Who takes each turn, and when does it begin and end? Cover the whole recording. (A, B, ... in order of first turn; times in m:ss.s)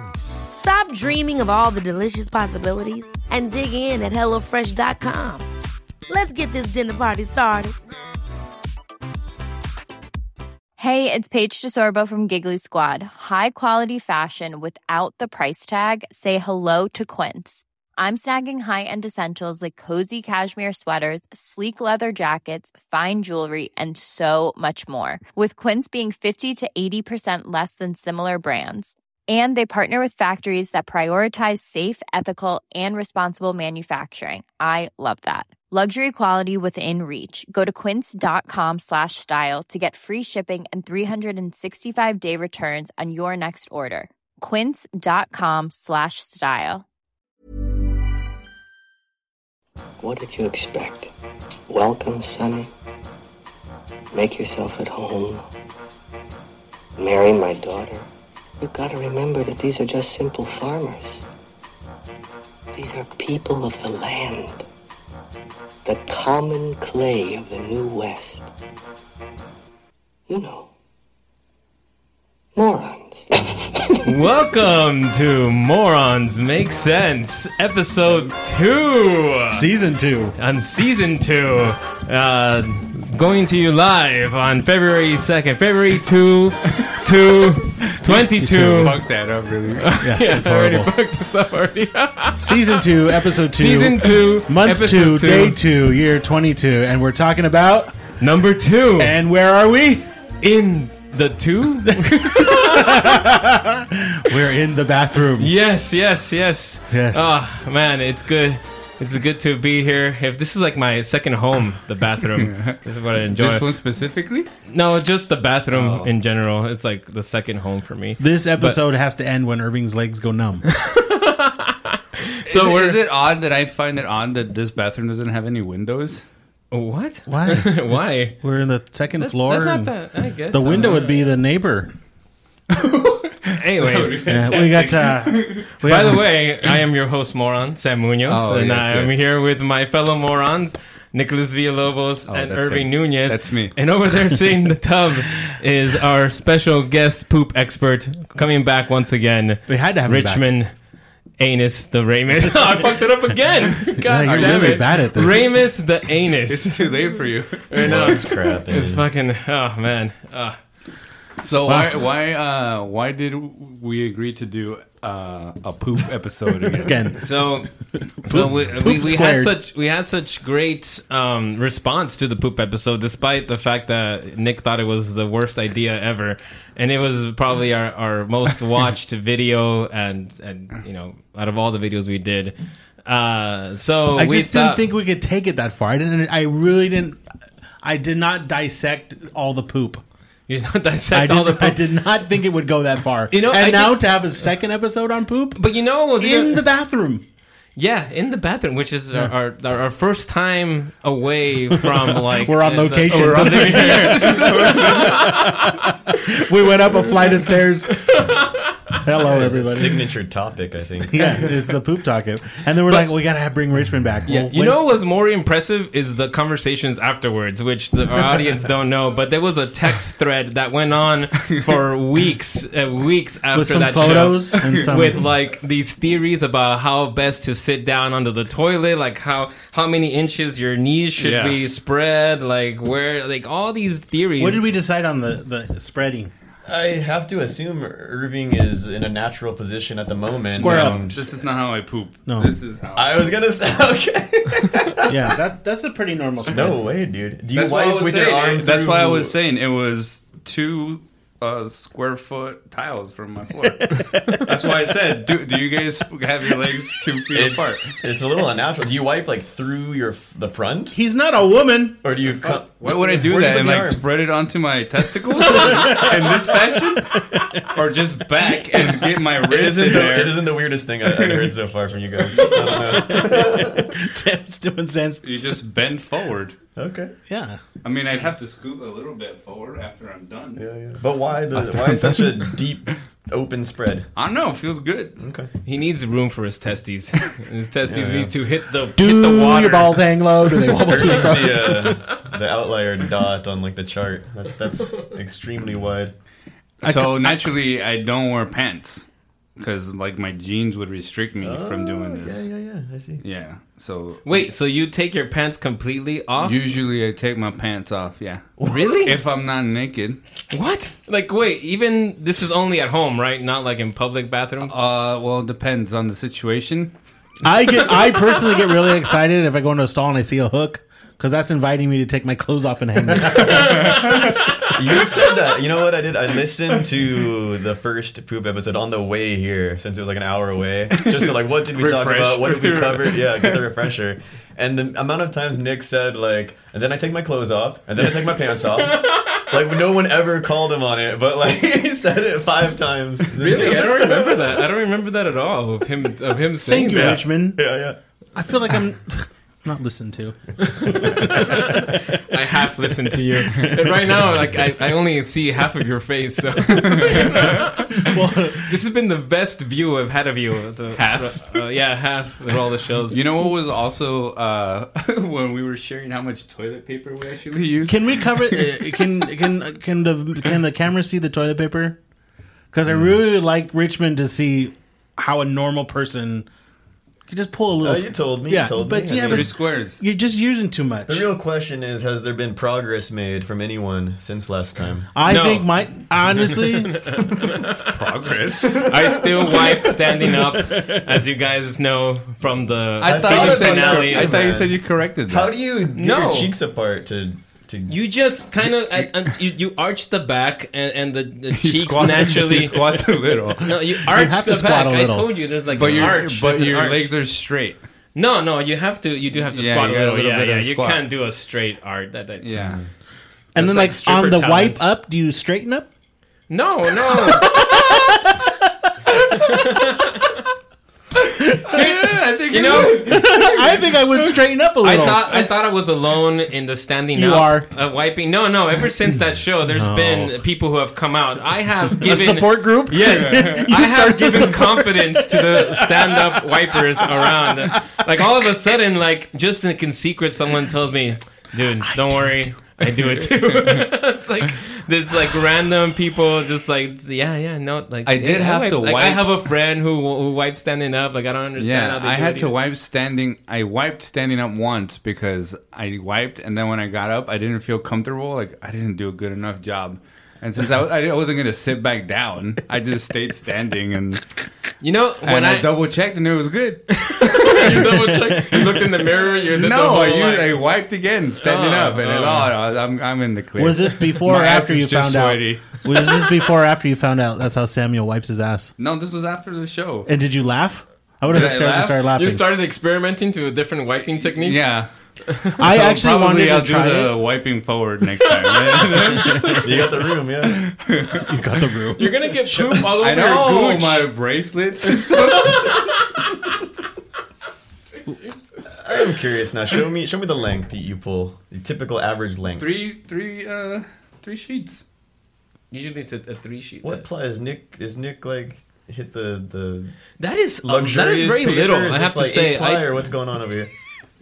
0:00.5-0:05.5 A
0:06.1-0:07.8 A
0:10.8-0:46.8 B
0:50.0-0:51.1 C
0:51.7-0:52.7 C
0:54.1-0:55.5 C
0:57.0-0:58.1 C
0:58.6-1:01.2 C
1:02.7-1:04.7 C
1:05.8-1:08.5 C
1:10.3-1:10.7 C
1:12.6-1:14.0 C
1:14.0-1:19.6 D
1:19.5-1:20.4 E
1:20.4-1:29.0 D
1:28.0-1:29.0 E
1:28.7-1:29.9 F
1:29.8-1:32.6 D
1:30.0-1:30.9 E
1:32.4-1:38.0 E
1:33.5-1:35.6 D
1:38.2-1:39.2 D
1:39.0-1:40.1 E
1:40.4-1:43.2 D
1:42.0-1:45.5 E
1:45.4-1:53.6 D
1:46.9-1:47.3 E
1:52.4-1:54.5 F
1:54.7-1:58.8 D
1:55.7-1:56.1 F
1:58.2-2:00.6 E
2:00.7-2:03.0 D
2:02.5-2:06.2 F
2:06.7-2:08.4 D
2:07.3-2:09.9 E
2:09.2-2:11.3 D
2:10.5-2:11.9 E
2:12.7-2:15.7 F
2:13.6-2:14.2 D
2:14.3-2:16.3 E
2:15.8-2:30.7 D
2:18.3-2:19.3 F
2:22.3-2:23.7 F
2:29.7-2:30.5 E
2:31.4-2:37.0 D
2:34.0-2:35.5 E
2:36.5-2:38.0 F
2:37.7-2:40.6 D
2:37.8-2:39.1 G
2:41.4-2:46.9 F
2:41.6-2:42.0 E
2:46.9-2:47.3 E
2:47.2-2:47.7 D
2:48.0-2:49.5 E
2:48.2-3:04.8 D
3:04.2-3:07.2 E
3:07.8-3:10.0 E
3:10.5-3:11.8 D
3:11.1-3:15.6 E
3:13.3-3:14.1 D
3:15.6-3:16.6 D
3:16.2-3:17.2 E
3:17.8-3:26.2 D
3:21.7-3:28.0 E
3:23.1-3:25.3 F
3:28.0-3:29.0 D
3:29.0-3:30.1 E
3:29.3-3:31.5 G
3:31.1-3:34.8 E
3:34.3-3:54.6 D
3:43.5-3:45.2 E
3:44.3-3:45.1 F
3:51.2-3:51.6 F
3:54.4-3:56.3 E
3:56.7-4:01.2 G
4:00.5-4:03.4 F
4:00.5-4:01.0 E
4:02.3-4:02.5 E
4:03.0-4:05.2 G
4:05.1-4:06.8 E
4:06.5-4:09.3 G
4:07.5-4:17.9 F
4:13.8-4:14.5 E
4:17.3-4:21.0 G
4:20.9-4:22.0 E
4:22.0-4:24.0 G
4:22.4-4:27.2 F
4:25.6-4:26.1 E
4:27.1-4:27.7 E
4:27.7-4:30.5 F
4:29.4-4:34.0 G
4:31.0-4:31.5 F
4:32.9-4:35.6 E
4:35.2-4:36.6 F
4:36.8-4:37.1 G
4:37.3-4:37.6 E
4:37.8-4:40.6 F
4:40.6-4:44.1 G
4:41.7-4:42.0 F
4:44.2-4:45.2 F
4:45.2-4:45.5 G
4:45.6-4:50.0 D
4:47.9-4:48.3 G
4:49.0-4:52.0 E
4:50.8-4:56.1 G
4:56.8-4:57.5 E
4:56.8-4:59.0 F
4:59.6-5:02.5 F
5:01.4-5:03.2 G
5:03.2-5:04.5 F
5:04.2-5:06.6 D
5:06.4-5:10.2 F
5:08.6-5:08.8 G
5:08.7-5:09.2 D
5:10.5-5:14.8 D
5:14.7-5:16.9 F
5:17.4-5:24.0 E
5:23.5-5:24.7 D
5:23.6-5:24.4 F
5:24.7-5:44.7 G
5:31.0-5:33.7 F
5:43.4-5:47.2 D
5:46.7-5:47.6 E
5:46.9-5:48.0 G
5:48.4-5:52.0 E
5:50.6-5:58.0 D
5:52.8-5:54.0 E
5:56.8-5:58.1 F
5:58.0-5:58.8 E
5:58.7-6:03.2 D
6:01.0-6:01.6 F
6:03.1-6:09.1 F
6:07.8-6:12.0 E
6:12.7-6:16.5 E
6:17.3-6:21.3 E
6:17.8-6:19.5 G
6:19.2-6:20.0 F
6:21.1-6:25.1 G
6:25.1-6:27.0 E
6:25.2-6:25.8 D
6:26.9-6:27.8 D
6:27.8-6:28.9 F
6:28.6-6:29.8 G
6:28.8-6:34.4 D
6:30.3-6:31.1 E
6:33.0-6:35.5 F
6:33.0-6:38.0 G
6:36.0-6:36.5 D
6:37.9-6:42.8 D
6:41.5-6:44.0 F
6:43.6-6:47.1 D
6:44.1-6:45.3 E
6:45.7-6:47.8 F
6:48.2-6:52.6 D
6:49.5-6:51.0 F
6:52.4-6:52.8 F
6:53.5-6:55.9 E
6:53.6-6:54.8 D
6:56.5-6:57.6 D
6:57.1-6:58.7 E
6:59.3-7:00.3 D
7:01.5-7:04.4 F
7:01.7-7:03.2 D
7:02.6-7:05.5 E
7:04.8-7:32.5 D
7:07.2-7:07.7 E
7:09.7-7:10.4 E
7:12.0-7:17.8 E
7:13.0-7:13.7 F
7:21.9-7:22.5 E
7:28.1-7:29.3 F
7:31.6-7:44.2 F
7:44.8-7:45.7 D
7:45.2-7:47.6 F
7:46.9-7:50.6 D
7:47.6-7:48.8 E
7:49.3-7:55.8 F
7:51.4-7:52.5 D
7:53.6-7:58.7 E
7:58.8-8:00.1 F
8:00.1-8:02.4 E
8:01.3-8:02.0 F
8:02.2-8:04.7 D
8:04.4-8:04.9 F
8:05.6-8:11.3 F
8:05.6-8:07.2 E
8:09.2-8:09.6 E
8:09.6-8:10.7 G
8:11.2-8:12.1 E
8:12.0-8:14.1 D
8:12.5-8:12.9 G
8:13.0-8:15.9 F
8:15.1-8:16.3 D
8:18.8-8:22.8 G
8:22.6-8:24.8 F
8:25.7-8:27.0 D
8:26.8-8:30.0 G
8:30.2-8:32.9 D
8:30.6-8:33.7 G